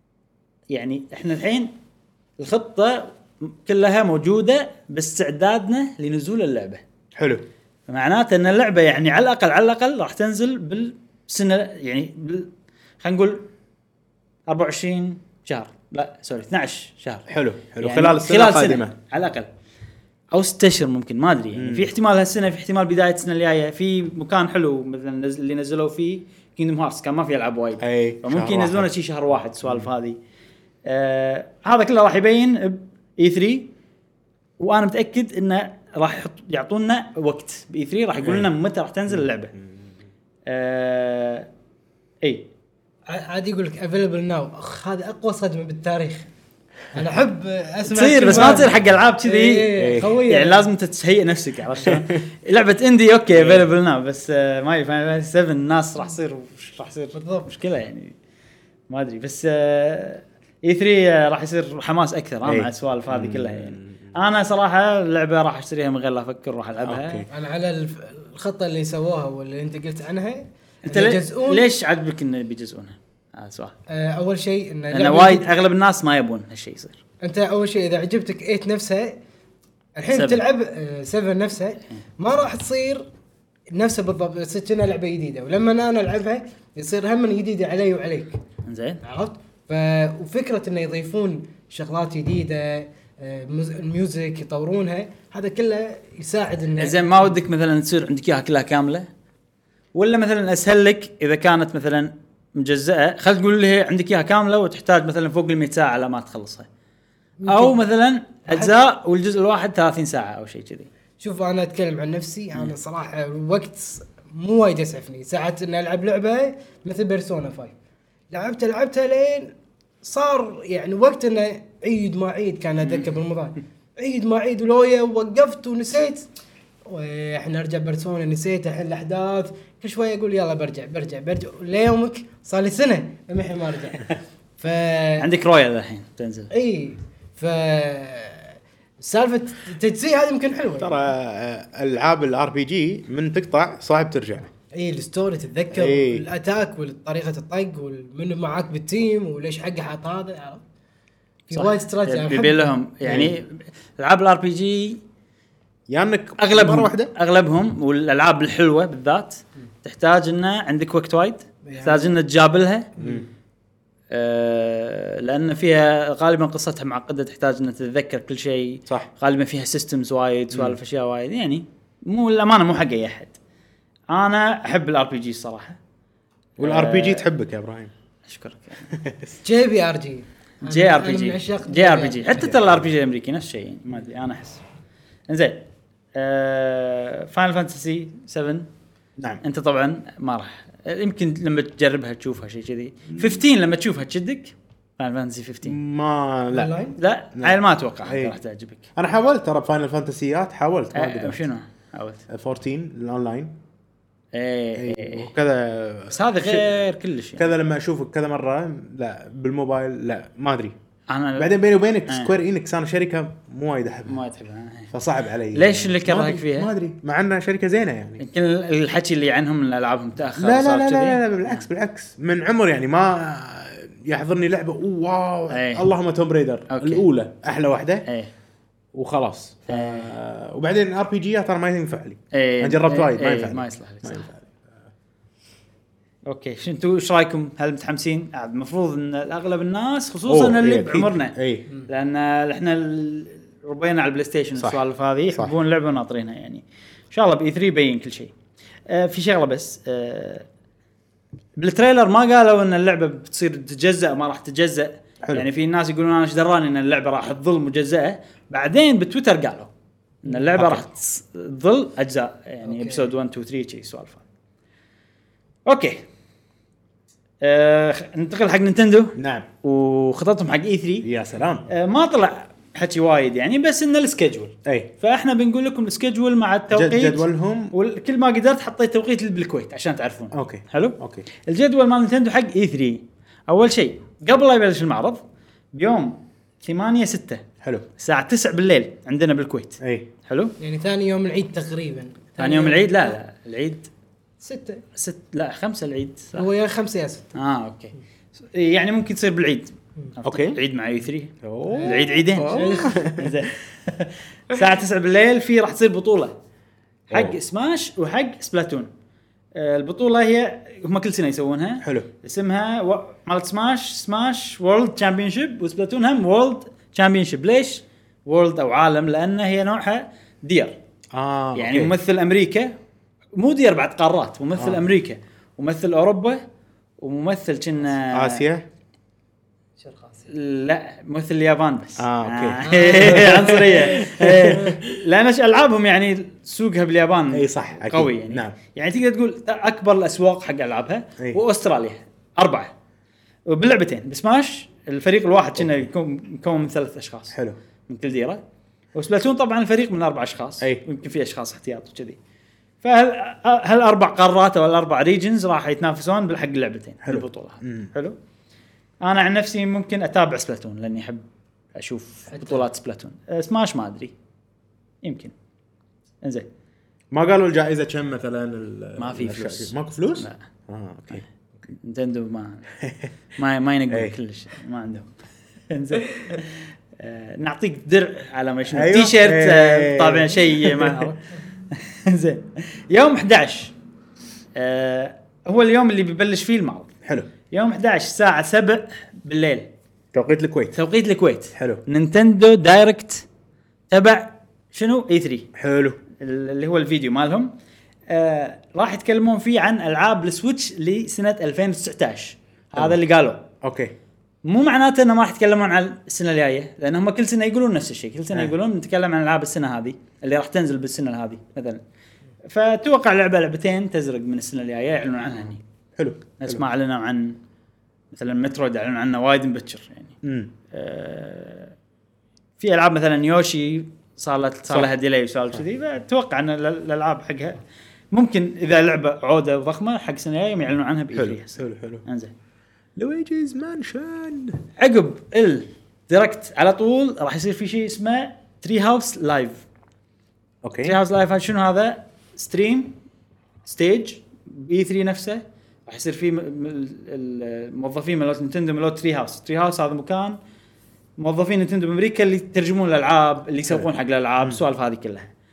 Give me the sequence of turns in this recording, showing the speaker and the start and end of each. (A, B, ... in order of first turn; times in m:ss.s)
0:00.7-0:01.7 A
0:02.4-0:06.8 A
0:07.2-0:07.4 B
0:07.9-0:13.5 A
0:14.5-0:17.3 A
0:17.3-0:19.0 B
0:17.8-0:19.5 A
0:20.3-0:30.2 A
0:21.6-0:21.9 B
0:27.8-0:28.9 B
0:29.6-0:29.9 B
0:30.9-0:33.7 A
0:34.6-0:39.5 A
0:38.2-0:38.5 B
0:40.5-0:41.5 A
0:43.1-0:46.3 C
0:46.9-0:50.7 C
0:47.9-0:58.2 A
0:48.3-0:48.6 B
0:49.8-0:50.2 B
0:51.8-0:52.1 B
0:53.3-0:53.7 B
0:57.1-0:57.5 C
0:58.9-1:07.3 A
1:02.4-1:04.1 B
1:06.8-1:07.3 B
1:07.3-1:11.7 C
1:10.9-1:13.8 A
1:13.9-1:15.5 C
1:14.9-1:17.0 A
1:17.2-1:19.2 C
1:20.0-1:23.1 C
1:20.1-1:20.4 A
1:23.7-1:28.4 C
1:28.6-1:29.0 A
1:29.0-1:37.4 C
1:36.8-1:39.1 A
1:40.0-1:46.7 A
1:47.4-1:47.8 C
1:47.5-1:50.9 A
1:51.2-1:57.7 C
1:58.3-2:06.3 C
2:02.8-2:03.1 A
2:06.9-2:15.3 C
2:15.2-2:16.5 A
2:16.5-2:21.1 C
2:20.8-2:24.5 B
2:24.8-2:30.6 C
2:25.7-2:26.2 B
2:31.5-2:33.3 C
2:31.5-2:35.0 A
2:33.1-2:33.3 B
2:35.9-2:37.1 B
2:36.4-2:42.9 A
2:41.7-2:42.2 C
2:43.0-2:43.2 C
2:43.0-2:43.3 B
2:44.1-2:53.4 A
2:50.5-2:50.8 B
2:54.1-2:55.8 A
2:56.6-2:57.3 A
2:56.6-2:57.9 B
2:58.3-2:58.9 A
2:58.9-2:59.3 B
2:59.4-3:02.2 C
3:00.6-3:04.6 A
3:02.4-3:02.8 B
3:05.3-3:08.7 A
3:09.4-3:15.8 A
3:15.6-3:16.8 B
3:16.5-3:17.0 C
3:17.0-3:18.9 A
3:17.4-3:18.4 B
3:19.0-3:21.4 B
3:20.9-3:22.2 A
3:22.3-3:23.5 B
3:24.3-3:25.3 A
3:24.8-3:26.8 B
3:26.1-3:27.5 A
3:27.4-3:30.8 B
3:31.1-3:31.6 A
3:31.4-3:34.2 B
3:32.1-3:32.4 A
3:34.1-3:34.9 A
3:34.9-3:38.2 B
3:35.5-3:36.7 A
3:38.2-3:41.6 A
3:40.4-3:48.1 B
3:45.5-3:45.9 A
3:46.7-3:47.0 A
3:48.1-3:48.3 A
3:48.9-3:54.6 B
3:49.7-3:50.1 A
3:52.3-3:54.3 A
3:56.3-4:08.3 A
4:00.3-4:01.7 B
4:08.9-4:10.5 A
4:11.6-4:19.7 A
4:20.2-4:24.2 A
4:20.5-4:20.9 B
4:22.6-4:23.1 C
4:25.7-4:26.0 A
4:27.4-4:31.1 A
4:29.2-4:29.5 B
4:31.0-4:31.7 B
4:31.7-4:45.2 A
4:34.6-4:34.9 B
4:36.7-4:37.7 B
4:40.3-4:41.3 B
4:45.7-4:47.4 A
4:48.0-4:50.5 A
4:49.8-4:50.1 B
4:50.6-4:53.2 C
4:52.4-4:53.9 A
4:54.4-4:54.8 C
4:55.0-4:56.5 A
4:56.4-4:57.3 C
4:57.4-5:06.4 A
5:00.3-5:00.6 B
5:01.4-5:03.4 B
5:01.7-5:03.1 C
5:07.1-5:08.9 A
5:07.1-5:07.4 B
5:09.6-5:20.8 A
5:11.8-5:12.1 B
5:21.1-5:22.0 B
5:21.6-5:22.8 A
5:23.4-5:26.4 A
5:24.6-5:24.8 B
5:27.0-5:28.4 A
5:28.1-5:28.7 B
5:29.8-5:30.2 C
5:30.3-5:42.7 A
5:32.0-5:35.0 B
5:32.7-5:34.0 C
5:37.3-5:38.6 B
5:43.5-5:47.4 A
5:47.9-5:48.4 A
5:48.9-5:52.2 A
5:52.8-5:58.2 A
5:57.0-5:57.9 B
5:59.0-6:01.2 A
6:01.8-6:04.1 A
6:02.3-6:02.6 C
6:05.0-6:05.3 A
6:06.2-6:06.5 A
6:07.1-6:11.3 B
6:09.0-6:10.4 A
6:11.8-6:12.7 A
6:12.8-6:13.1 B
6:13.4-6:15.1 A
6:13.9-6:14.2 B
6:15.7-6:21.2 A
6:18.7-6:21.1 B
6:21.7-6:23.8 A
6:24.6-6:26.9 A
6:27.5-6:29.7 A
6:30.1-6:30.7 B
6:30.7-6:33.3 A
6:31.6-6:31.8 B
6:33.9-6:35.5 A
6:35.6-6:36.0 B
6:36.2-6:37.5 A
6:38.1-6:43.4 A
6:43.6-6:43.9 B
6:44.4-6:51.8 A
6:52.5-6:55.6 A
6:56.0-6:56.6 B
6:56.4-6:57.4 A
6:58.1-7:00.2 A
7:00.2-7:00.5 B
7:00.7-7:01.7 A
7:02.6-7:07.6 A
7:08.1-7:12.3 A
7:11.2-7:12.0 B
7:13.0-7:14.6 B
7:14.8-7:19.6 A
7:20.6-7:21.0 B
7:20.8-7:23.0 A
7:23.6-7:30.4 A
7:31.2-7:35.3 A